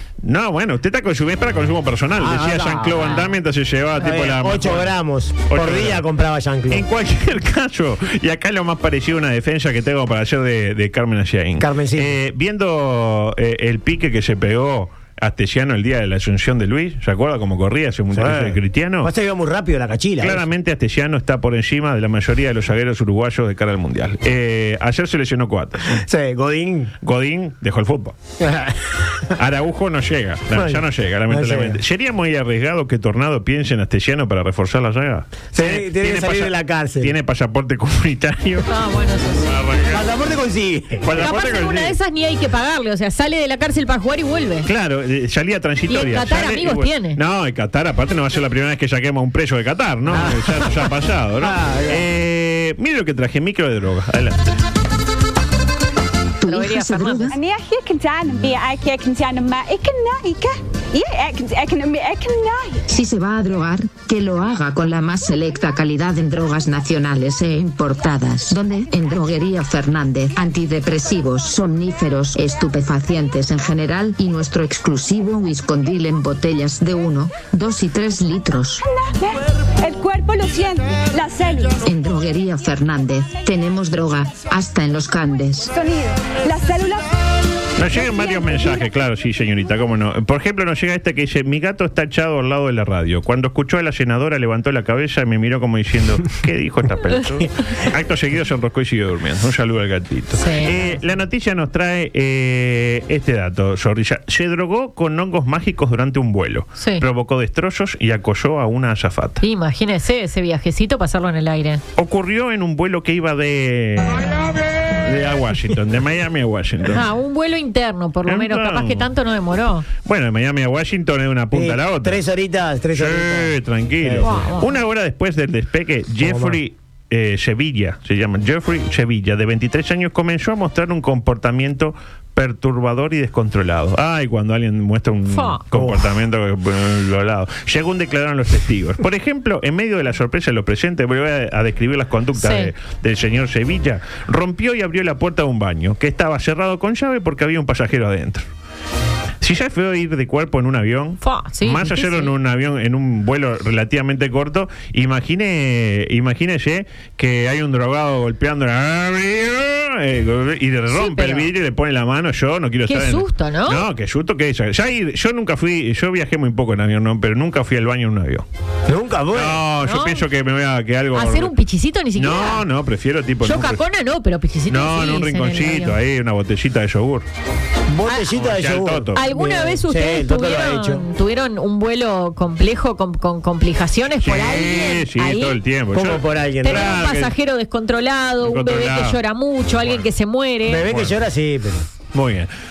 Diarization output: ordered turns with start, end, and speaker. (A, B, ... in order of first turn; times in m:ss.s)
0:00.2-0:04.9 A
0:02.2-0:03.2 B
0:04.0-0:06.9 B
0:05.5-0:06.1 A
0:06.7-0:19.1 A
0:11.6-0:12.2 B
0:18.1-0:20.5 B
0:20.2-0:26.0 A
0:25.9-0:26.9 B
0:27.0-0:28.2 A
0:28.4-0:28.9 B
0:29.4-0:38.7 A
0:30.5-0:31.8 B
0:35.5-0:37.1 B
0:38.7-0:39.6 C
0:39.5-0:40.0 A
0:39.9-0:41.2 B
0:41.0-0:42.0 A
0:41.2-0:44.7 C
0:44.7-0:54.5 A
0:45.9-0:47.2 C
0:50.1-0:52.1 B
0:56.4-0:57.3 D
0:56.4-0:57.4 C
0:57.3-1:02.8 E
1:02.9-1:18.8 D
1:18.9-1:21.8 E
1:21.8-1:25.7 D
1:25.7-1:27.1 E
1:27.8-1:49.4 A
1:40.4-1:41.0 C
1:46.8-1:47.0 C
1:49.4-1:51.8 C
1:52.0-1:54.5 A
1:55.0-1:57.0 A
1:56.9-1:59.9 C
1:58.3-1:59.1 A
2:00.0-2:02.2 A
2:01.5-2:04.4 B
2:02.9-2:28.5 A
2:04.2-2:04.7 C
2:06.2-2:06.6 B
2:15.3-2:15.6 C
2:15.7-2:16.1 B
2:22.4-2:22.7 C
2:29.4-2:48.5 A
2:31.2-2:32.3 C
2:40.9-2:41.5 C
2:42.9-2:43.8 C
2:48.9-2:49.6 B
2:49.3-2:51.5 A
2:49.8-2:50.2 C
2:51.1-2:52.6 C
2:52.2-2:53.8 A
2:53.4-2:56.0 C
2:54.7-2:57.3 A
2:57.9-3:01.0 B
2:58.1-2:58.3 C
2:58.3-2:59.2 A
2:59.2-3:05.6 C
3:04.2-3:07.3 A
3:05.9-3:07.0 B
3:06.6-3:10.9 C
3:08.4-3:09.2 A
3:09.8-3:10.0 A
3:10.7-3:11.9 B
3:10.8-3:11.2 A
3:12.1-3:12.5 A